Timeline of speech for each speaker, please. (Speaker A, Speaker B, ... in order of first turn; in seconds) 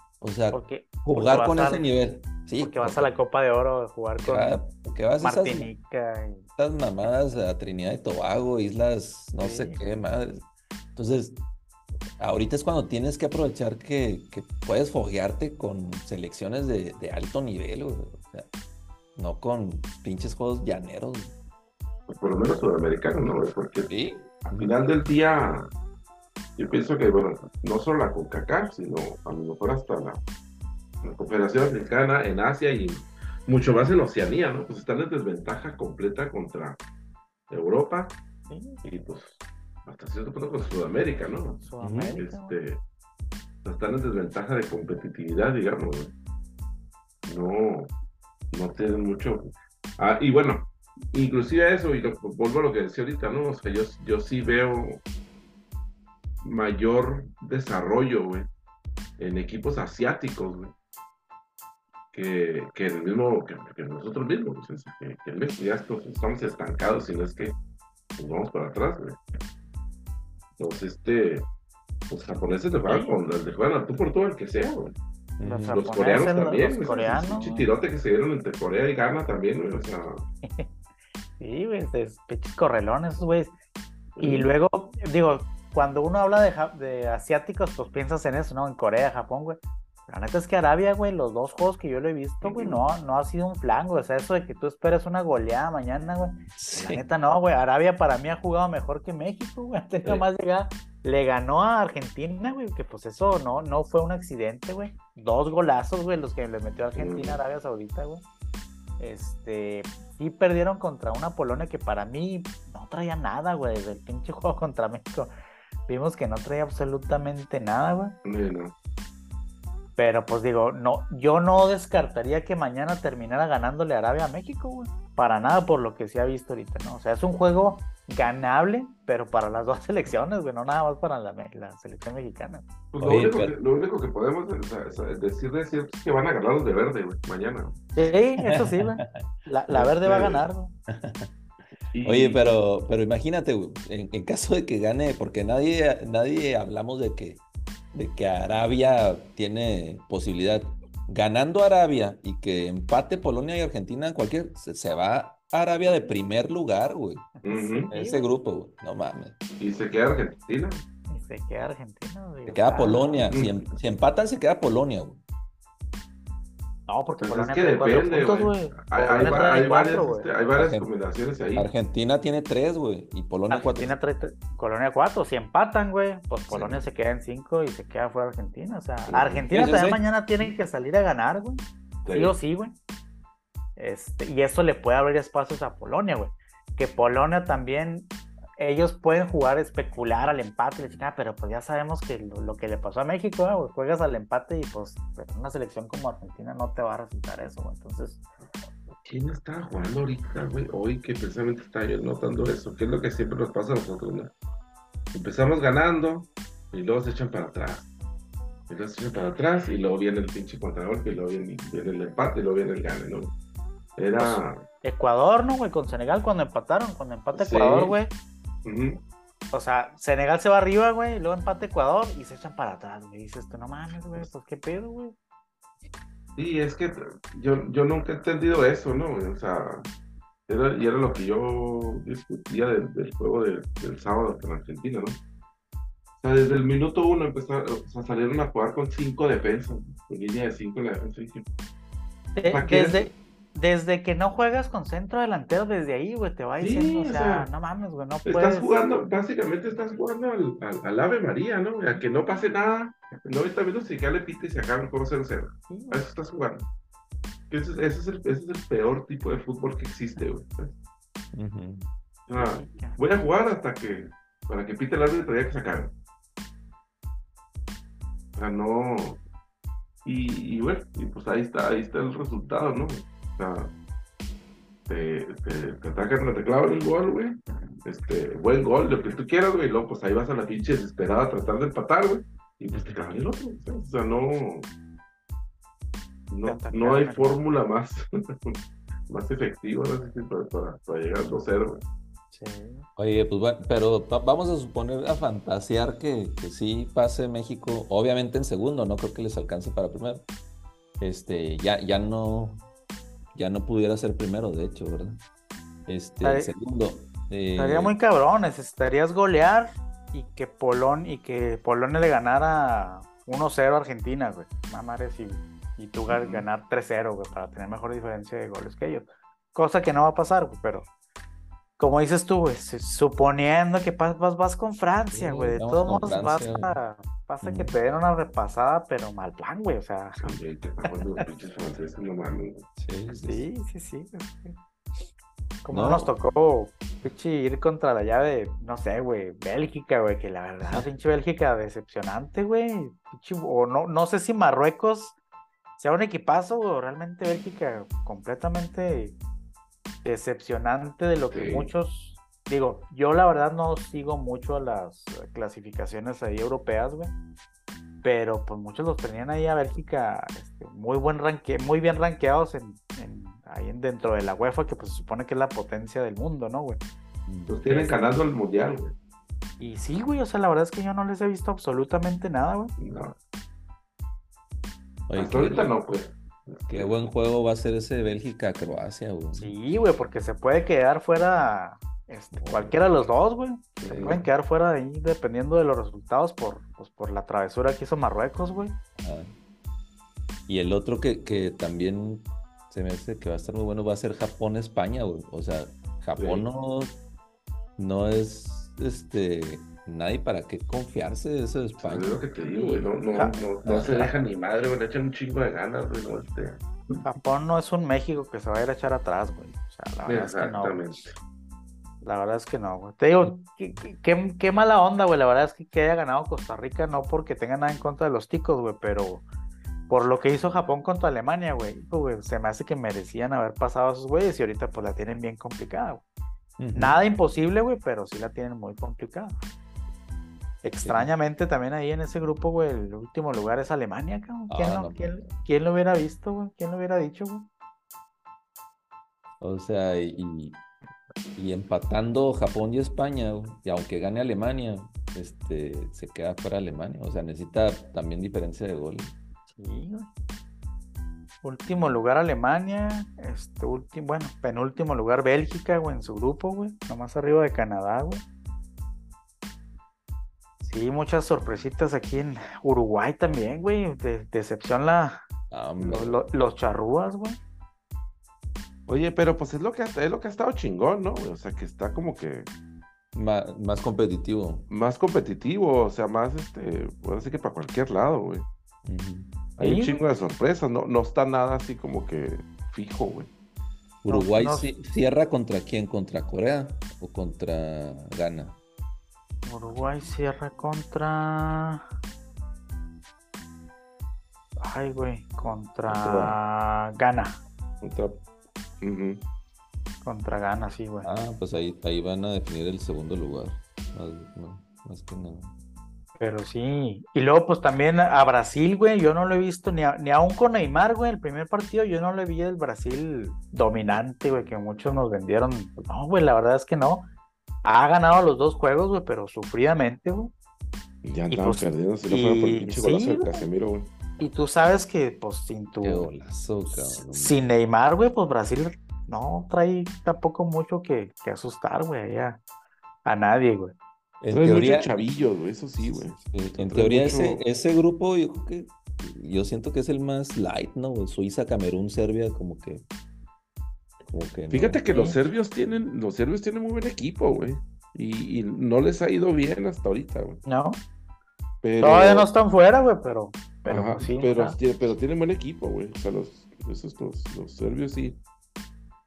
Speaker A: 0.2-3.1, 4.2-5.7, 6.6-10.4, 10.9-11.4, 12.2-18.5, 19.1-21.3, 23.9-24.7, 41.8-42.2, 75.4-75.8, 96.6-97.0, 133.0-133.5, 138.4-139.2, 140.9-141.3, 142.0-147.4, 147.9-157.3, 157.9-159.3, 162.5-165.2, 169.2-169.5, 170.6-170.9, 171.6-173.9, 179.5-180.0, 261.3-261.9, 282.7-283.1, 292.9-300.2, 301.0-302.6, 303.3-305.2, 305.9-307.9, 325.1-326.8, 327.4-327.7, 332.8-333.5, 335.7-336.1, 367.3-367.6, 375.1-375.7, 376.7-379.5, 382.4-382.8, 389.0-389.3, 390.5-396.9, 397.8-402.1, 403.6-404.1, 426.6-427.0, 430.8-431.1, 434.5-435.1, 439.4-440.6, 441.4-449.1, 465.5-466.2, 473.1-474.7, 478.8-479.4, 484.0-488.6, 501.0-505.5, 525.8-527.4, 534.2-534.9, 535.8-542.8, 544.1-544.8
Speaker B: 0.5-1.9, 2.6-4.6, 5.2-6.4, 9.4-9.8, 38.5-38.8, 41.2-42.6, 72.8-73.1, 75.4-77.7, 80.4-80.7, 81.4-83.5, 84.2-108.2, 109.0-115.3, 115.9-118.1, 120.0-132.6, 137.9-140.7, 157.4-158.3, 161.1-163.2, 166.9-170.3, 173.5-182.8, 183.8-198.2, 214.2-218.1, 219.5-225.1, 242.3-248.7, 255.7-256.0, 262.3-263.0, 286.4-287.4, 292.3-292.9, 306.2-306.5, 307.6-320.9, 321.8-330.2, 333.2-334.6, 335.6-345.2, 345.8-349.2, 350.0-357.1, 358.0-366.8, 367.6-368.0, 369.6-372.7, 379.3-388.8, 402.5-404.1, 407.0-411.0, 412.0-419.2, 419.9-426.0, 426.7-429.3, 430.6-437.5, 449.5-450.1, 451.4-458.2, 460.6-465.2, 465.8-467.4, 479.6-480.0, 484.1-484.7, 489.4-491.8, 494.6-497.4, 500.0-501.1, 506.2-517.1, 517.6-520.3, 521.3-523.4, 524.2-526.1, 526.7-532.4, 533.0-533.8, 544.9-545.1, 550.4-550.8, 551.8-554.6
Speaker C: 22.1-23.9, 24.4-25.7, 26.6-30.2, 31.0-36.8, 37.5-38.2, 38.8-41.6, 42.1-42.8, 43.6-46.1, 47.3-47.9, 48.5-55.0, 56.4-58.5, 59.2-60.7, 62.1-67.5, 68.2-69.2, 70.6-71.5, 72.1-75.0, 75.7-80.2, 84.2-84.5, 92.4-92.8, 106.9-107.4, 118.2-118.7, 132.9-137.8, 139.7-140.4, 141.9-142.5, 157.4-157.9, 159.6-160.8, 167.2-171.7, 176.5-176.8, 179.1-179.5, 182.0-182.3, 199.0-204.3, 205.1-207.9, 208.7-213.3, 214.0-214.6, 217.3-217.9, 218.6-219.0, 226.3-229.9, 230.5-235.2, 236.2-241.4, 242.5-243.1, 246.6-247.5, 248.2-256.7, 257.5-260.8, 262.3-265.9, 268.3-269.2, 270.0-273.7, 274.9-284.7, 286.3-288.6, 289.1-291.8, 316.1-316.4, 330.2-332.6, 351.3-351.7, 367.5-368.9, 372.8-373.1, 375.1-377.0, 383.8-384.2, 396.2-396.4, 401.8-406.6, 410.1-411.2, 468.9-472.5, 474.7-478.5, 479.6-483.3, 495.9-496.4, 497.8-498.2, 498.8-499.2, 521.0-523.9, 534.3-537.4, 544.5-550.4, 551.6-552.3, 553.7-558.2